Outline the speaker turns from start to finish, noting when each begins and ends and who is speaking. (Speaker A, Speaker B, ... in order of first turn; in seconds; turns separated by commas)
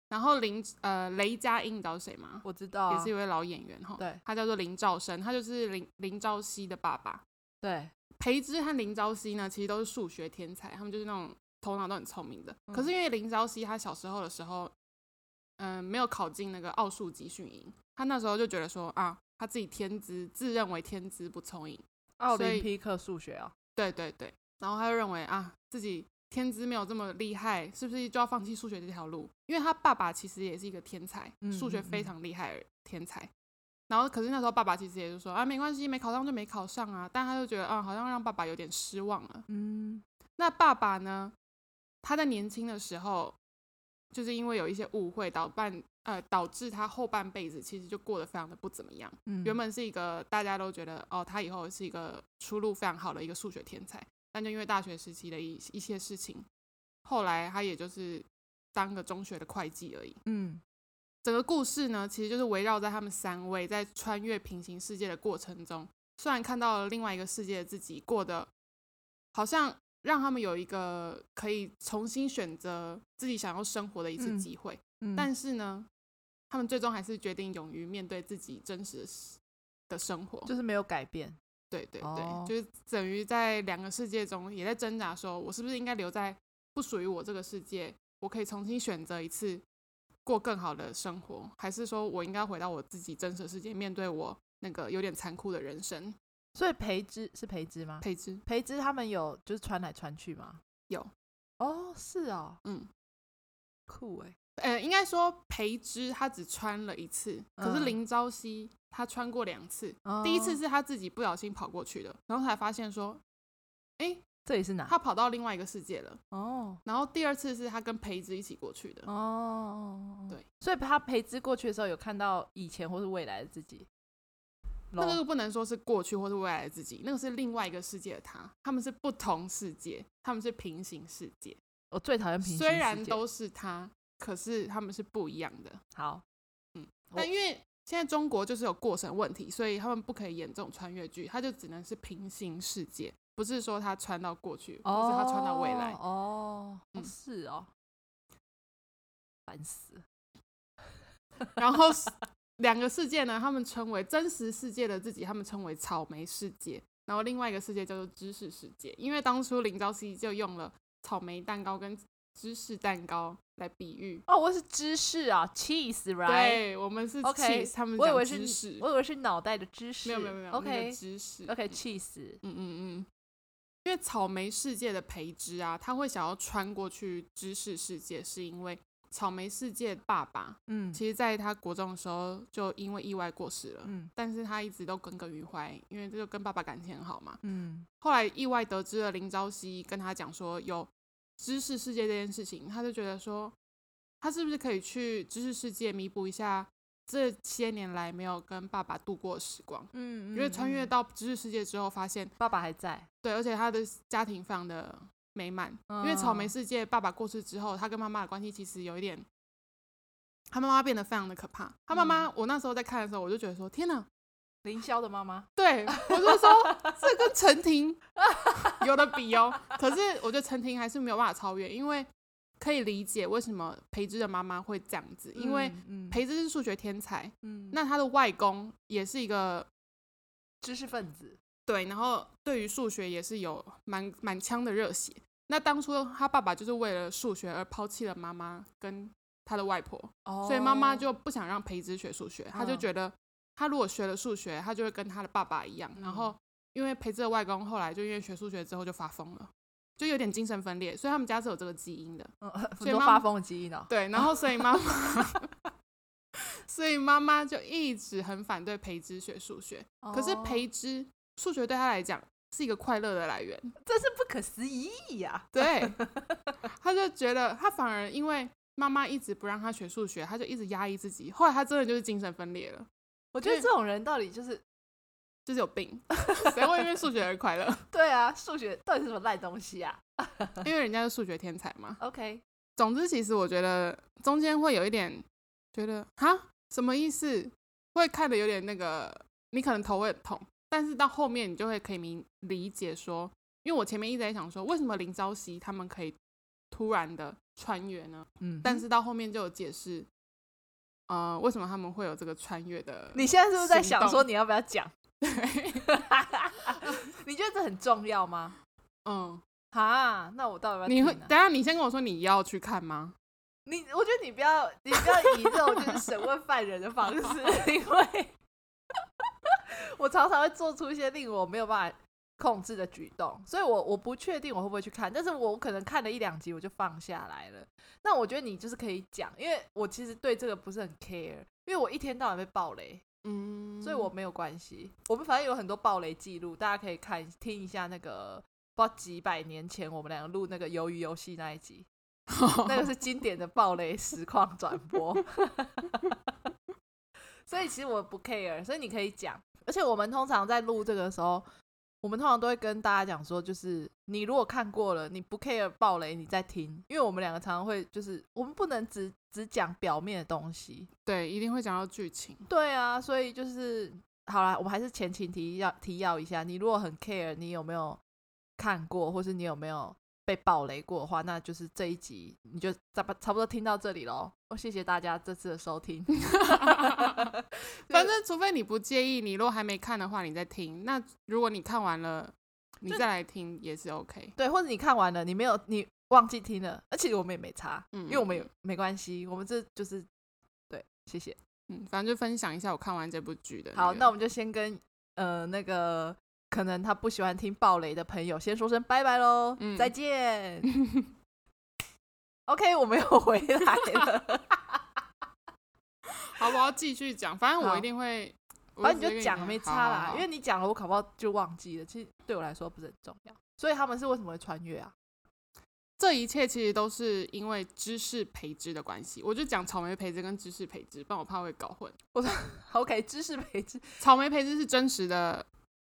Speaker A: 0.1-7.2, Speaker B: 2.4-3.1, Speaker B: 7.6-7.9, Speaker A: 8.2-14.7, Speaker A: 15.6-22.7, Speaker B: 22.2-23.5, Speaker A: 23.8-33.3, Speaker B: 31.4-32.1, Speaker A: 33.9-39.4, Speaker B: 39.5-40.0, Speaker A: 40.4-41.3, Speaker A: 42.0-43.4, Speaker A: 44.1-56.5, Speaker B: 49.3-49.6, Speaker A: 57.0-60.2, Speaker B: 60.2-60.6, Speaker A: 61.2-68.5, Speaker A: 69.3-75.9, Speaker B: 74.2-74.5, Speaker B: 75.0-75.3, Speaker A: 76.5-80.5, Speaker B: 80.5-81.4, Speaker A: 81.7-89.6, Speaker B: 82.0-82.5, Speaker A: 90.2-96.2, Speaker B: 96.5-100.6, Speaker A: 98.0-98.4, Speaker B: 101.6-102.6, Speaker A: 102.6-102.9, Speaker B: 103.9-104.3, Speaker A: 104.6-113.2, Speaker B: 107.6-108.0, Speaker B: 110.0-110.6, Speaker A: 114.0-114.2, Speaker B: 114.4-114.9, Speaker A: 114.9-116.2, Speaker B: 116.3-116.8, Speaker A: 116.8-119.1, Speaker B: 119.1-123.9, Speaker B: 124.9-125.2, Speaker A: 125.0-131.6, Speaker B: 131.9-133.2, Speaker A: 132.4-135.8, Speaker B: 135.9-136.2, Speaker A: 136.7-146.0, Speaker B: 144.8-147.7, Speaker B: 149.5-150.0, Speaker A: 151.6-164.2, Speaker B: 164.3-166.6, Speaker A: 166.2-168.8, Speaker B: 167.2-172.4, Speaker A: 170.1-171.8, Speaker A: 172.4-173.1, Speaker A: 173.8-187.4, Speaker B: 180.7-181.0, Speaker B: 183.8-184.1, Speaker B: 187.4-187.9, Speaker A: 188.0-193.6, Speaker A: 194.2-202.3, Speaker B: 199.9-200.9, Speaker B: 202.4-203.1, Speaker A: 203.2-209.2, Speaker B: 205.9-206.5, Speaker A: 210.5-214.1, Speaker B: 211.9-212.2, Speaker B: 214.6-217.3, Speaker A: 215.6-218.0, Speaker B: 218.2-218.8, Speaker A: 218.6-229.7, Speaker B: 225.3-226.2, Speaker B: 227.4-227.8, Speaker B: 230.6-231.4, Speaker A: 231.7-253.2, Speaker B: 240.2-241.1, Speaker B: 242.5-242.8, Speaker B: 245.9-246.3, Speaker B: 252.4-254.6, Speaker A: 253.9-255.4, Speaker A: 256.3-263.7, Speaker B: 260.0-260.6, Speaker B: 263.8-266.6, Speaker A: 265.5-265.9, Speaker A: 266.7-272.9, Speaker B: 273.3-274.6, Speaker A: 273.4-273.7, Speaker A: 275.4-277.9, Speaker B: 276.2-276.9, Speaker B: 277.9-280.6, Speaker A: 280.6-282.0, Speaker B: 282.0-282.4, Speaker A: 282.8-296.2, Speaker A: 296.7-300.1, Speaker B: 298.4-298.8, Speaker A: 301.1-304.3, Speaker B: 303.1-304.9, Speaker A: 305.2-306.0, Speaker B: 305.8-308.6, Speaker A: 309.1-309.4, Speaker B: 309.7-311.3, Speaker A: 310.9-313.1, Speaker B: 313.7-318.3, Speaker A: 315.5-315.9, Speaker B: 319.4-333.1, Speaker A: 333.2-334.1, Speaker B: 333.8-341.9, Speaker A: 342.3-342.9, Speaker B: 342.6-346.2, Speaker B: 347.5-351.4, Speaker B: 352.0-360.9, Speaker A: 361.1-362.4, Speaker B: 362.5-368.0, Speaker B: 368.6-378.1, Speaker A: 376.3-377.3, Speaker A: 377.9-384.3, Speaker B: 384.4-390.1, Speaker A: 387.9-388.5, Speaker B: 390.7-391.4, Speaker A: 391.7-394.1, Speaker B: 393.7-400.7, Speaker A: 399.6-399.9, Speaker A: 400.7-401.1, Speaker B: 402.5-404.8, Speaker A: 406.1-410.2, Speaker B: 407.6-407.8, Speaker B: 408.8-414.9, Speaker A: 416.0-421.9, Speaker B: 422.1-424.0, Speaker A: 424.0-425.5